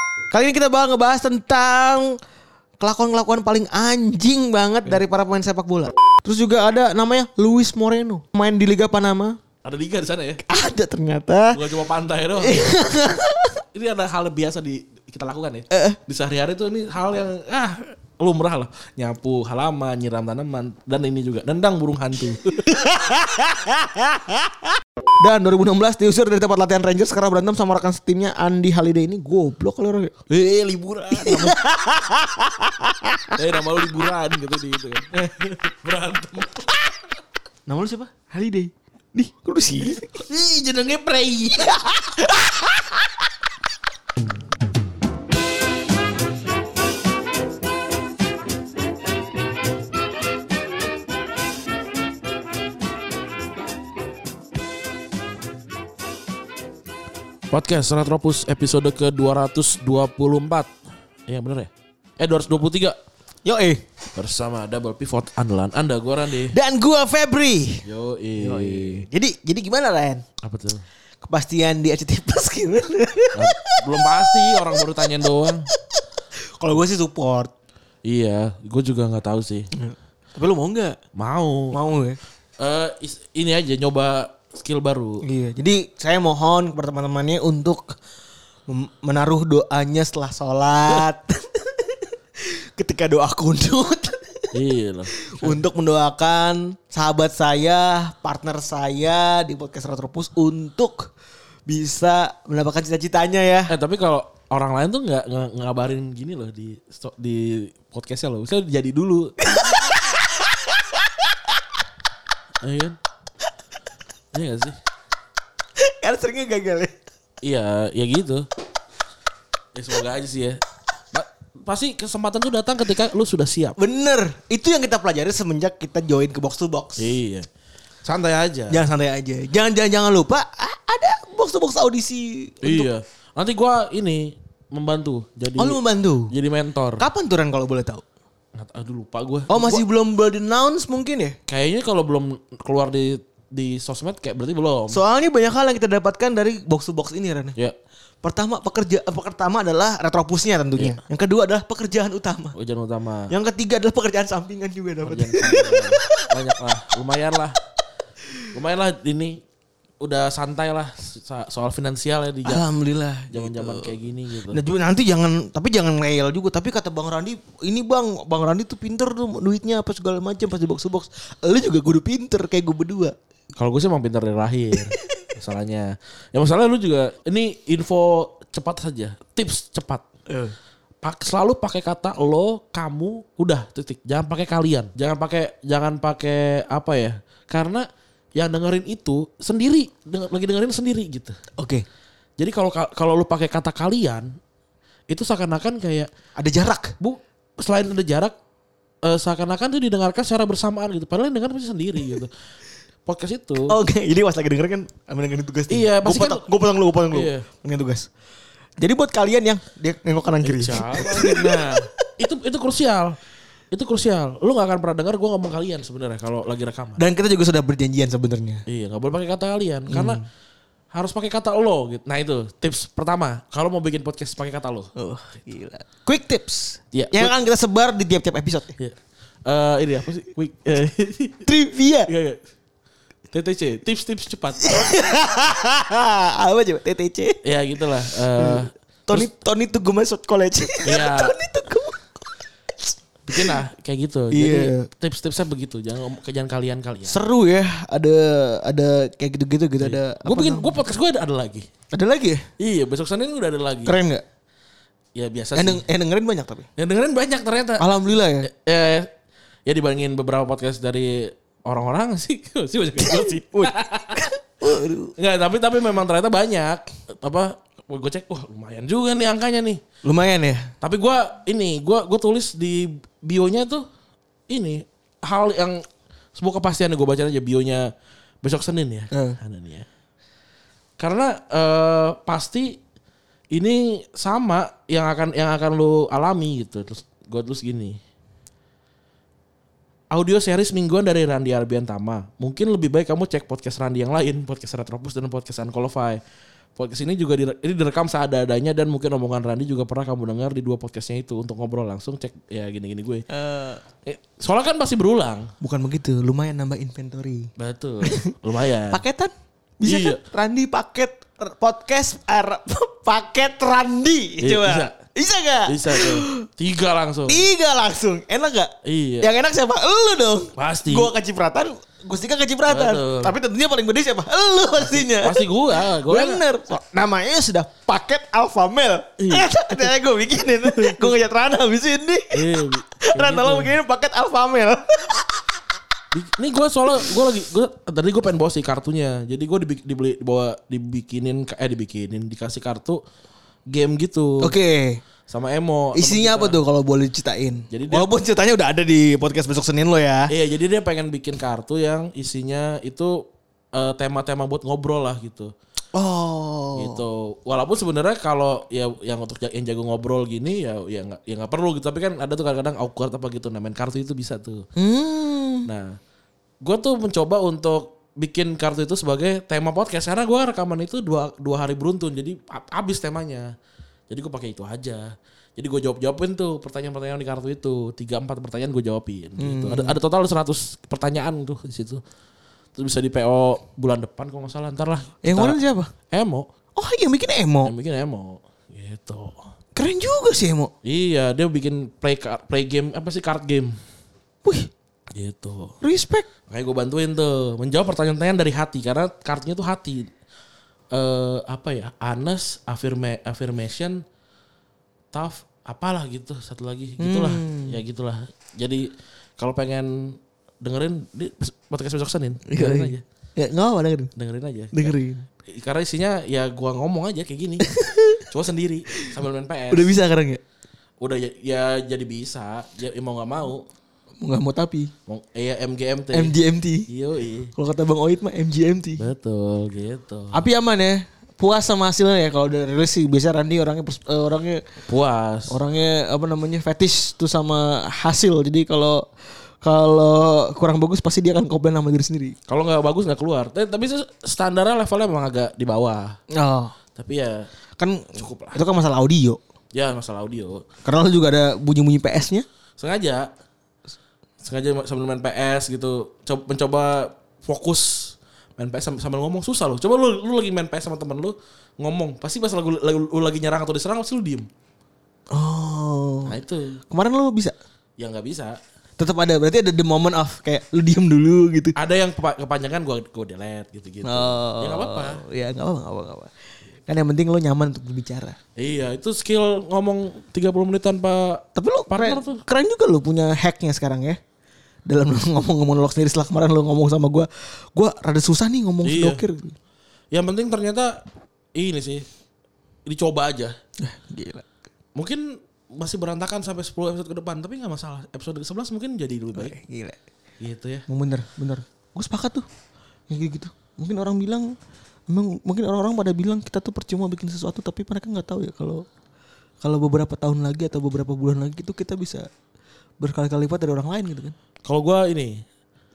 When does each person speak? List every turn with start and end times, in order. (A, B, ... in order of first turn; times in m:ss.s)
0:00.3-0:02.1 A
0:02.8-0:09.4 A
0:09.6-0:10.4 B
0:10.5-0:11.6 A
0:11.5-0:12.8 B
0:12.4-0:13.6 A
0:13.7-0:22.8 B
0:15.7-0:16.0 A
0:22.5-0:30.2 A
0:30.3-0:31.6 B
0:31.1-0:33.4 A
0:33.4-0:36.9 B
0:37.7-0:40.1 A
0:40.0-0:41.8 B
0:41.6-0:43.2 A
0:57.5-1:00.7 B
1:01.3-1:03.0 B
1:03.4-1:03.9 A
1:04.2-1:06.6 B
1:06.4-1:07.9 A
1:07.8-1:09.0 B
1:08.4-1:10.2 A
1:10.4-1:10.8 B
1:11.2-1:15.1 A
1:13.3-1:15.7 B
1:16.6-1:17.5 A
1:18.0-1:19.7 B
1:19.7-1:21.0 A
1:21.2-1:21.8 B
1:21.7-1:22.2 A
1:22.6-1:25.2 B
1:25.2-1:28.0 A
1:28.7-1:34.5 A
1:34.5-1:35.6 B
1:35.2-1:41.1 A
1:41.7-1:43.7 A
1:43.7-1:49.4 B
1:49.4-1:51.4 A
1:52.6-1:53.0 B
1:54.3-1:54.8 B
1:55.8-1:57.0 A
1:57.4-1:58.5 B
1:59.7-2:03.8 B
2:03.8-2:07.1 A
2:07.0-2:07.5 B
2:08.1-2:08.8 B
2:08.7-2:12.9 A
2:12.6-2:17.0 B
2:15.6-2:16.3 A
2:17.0-2:18.0 A
2:18.6-2:19.8 B
2:19.5-2:21.4 A
2:21.5-2:25.0 B
2:24.9-2:27.6 A
2:28.2-2:32.6 A
2:30.7-2:31.0 B
2:32.5-2:33.3 B
2:33.3-2:36.3 A
2:35.0-2:37.6 B
2:38.5-2:39.4 B
2:40.0-2:42.6 B
2:42.4-2:43.9 A
2:43.3-2:44.6 B
2:44.5-2:53.2 A
2:53.6-3:00.0 B
3:00.3-3:00.6 A
3:01.0-3:11.4 B
3:11.6-3:11.8 A
3:12.4-3:14.4 B
3:15.1-3:16.1 B
3:16.4-3:16.9 A
3:17.0-3:18.4 B
3:19.0-3:22.3 B
3:23.1-3:23.8 B
3:23.7-3:28.1 A
3:25.7-3:26.5 B
3:27.1-3:27.5 B
3:28.8-3:31.9 A
3:30.4-3:33.2 B
3:33.7-3:37.0 B
3:37.0-3:38.6 A
3:38.7-3:40.2 B
3:39.9-3:40.2 A
3:40.9-3:44.9 B
3:45.0-3:48.7 A
3:46.9-3:47.4 B
3:48.8-3:51.5 B
3:51.5-3:52.1 A
3:52.1-3:52.4 B
3:53.3-3:54.9 B
3:54.6-3:57.4 A
3:57.4-3:59.3 B
3:58.1-4:02.1 A
4:00.8-4:01.4 B
4:03.3-4:07.2 B
4:04.3-4:04.9 A
4:07.1-4:10.8 A
4:09.8-4:11.7 B
4:11.9-4:12.5 A
4:12.6-4:14.0 B
4:13.8-4:14.2 A
4:15.2-4:15.8 B
4:15.6-4:16.7 A
4:16.8-4:17.9 B
4:17.8-4:18.5 A
4:18.4-4:19.1 B
4:19.7-4:24.2 B
4:23.0-4:25.1 A
4:25.2-4:29.8 B
4:30.0-4:30.7 A
4:30.8-4:33.8 B
4:34.5-4:37.9 B
4:38.4-4:39.9 B
4:39.1-4:39.4 A
4:41.0-4:42.8 B
4:43.5-4:48.0 B
4:50.1-4:56.2 B
4:56.8-5:03.3 B
5:03.3-5:03.8 A
5:04.1-5:05.5 B
5:05.6-5:07.5 A
5:07.6-5:09.0 B
5:08.0-5:08.3 A
5:08.9-5:16.5 A
5:09.8-5:10.2 B
5:14.4-5:15.0 B
5:15.7-5:17.5 B
5:17.3-5:35.4 A
5:18.8-5:19.3 B
5:20.6-5:21.1 B
5:22.7-5:23.4 B
5:24.8-5:26.4 B
5:29.2-5:29.9 B
5:30.6-5:31.1 B
5:32.3-5:33.7 B
5:36.1-5:43.0 B
5:43.7-5:44.5 B
5:44.4-5:45.0 A
5:45.3-5:46.6 B
5:45.9-5:50.3 A
5:47.7-5:48.1 B
5:50.3-5:55.5 B
5:55.9-5:57.0 A
5:56.8-6:04.6 B
6:04.8-6:05.7 A
6:05.6-6:05.9 B
6:06.6-6:13.5 B
6:14.1-6:22.0 B
6:19.4-6:20.0 A
6:22.8-6:26.5 B
6:25.2-6:25.9 A
6:26.8-6:27.7 A
6:27.6-6:29.5 B
6:29.8-6:30.7 A
6:30.8-6:33.8 B
6:34.4-6:34.7 A
6:35.1-6:35.8 B
6:35.8-6:36.3 A
6:36.5-6:40.1 B
6:40.9-6:44.0 B
6:45.1-6:53.0 B
6:47.0-6:47.8 A
6:52.5-6:54.1 A
6:54.2-6:55.0 B
6:54.7-6:55.3 A
6:55.5-6:59.9 B
6:57.6-6:58.2 A
6:59.7-7:00.4 A
7:01.0-7:03.6 B
7:04.2-7:04.9 A
7:05.1-7:06.4 B
7:06.1-7:06.9 A
7:06.9-7:07.5 B
7:07.6-7:09.0 A
7:09.0-7:10.4 B
7:10.3-7:14.6 A
7:14.9-7:15.6 B
7:15.5-7:19.1 A
7:19.6-7:22.4 A
7:22.5-7:26.2 B
7:26.3-7:26.7 A
7:27.0-7:27.5 B
7:27.8-7:29.4 A
7:28.2-7:28.6 B
7:29.7-7:30.7 B
7:30.8-7:32.5 A
7:32.8-7:33.3 B
7:34.4-7:44.5 B
7:45.3-7:46.4 A
7:46.3-7:46.8 B
7:46.9-7:47.6 A
7:48.0-7:48.6 B
7:49.0-7:51.8 A
7:51.8-7:55.2 B
7:54.0-7:56.3 A
7:56.9-7:58.4 A
7:58.6-8:02.4 B
8:01.6-8:04.2 A
8:04.9-8:09.6 A
8:08.8-8:09.2 B
8:10.1-8:11.0 B
8:11.6-8:12.1 B
8:12.9-8:13.5 B
8:13.8-8:14.4 A
8:15.0-8:19.6 B
8:19.4-8:20.0 A
8:20.4-8:20.9 B
8:20.9-8:22.5 A
8:23.1-8:24.6 A
8:25.1-8:28.9 A
8:29.6-8:32.3 A
8:33.0-8:34.4 A
8:34.7-8:35.4 B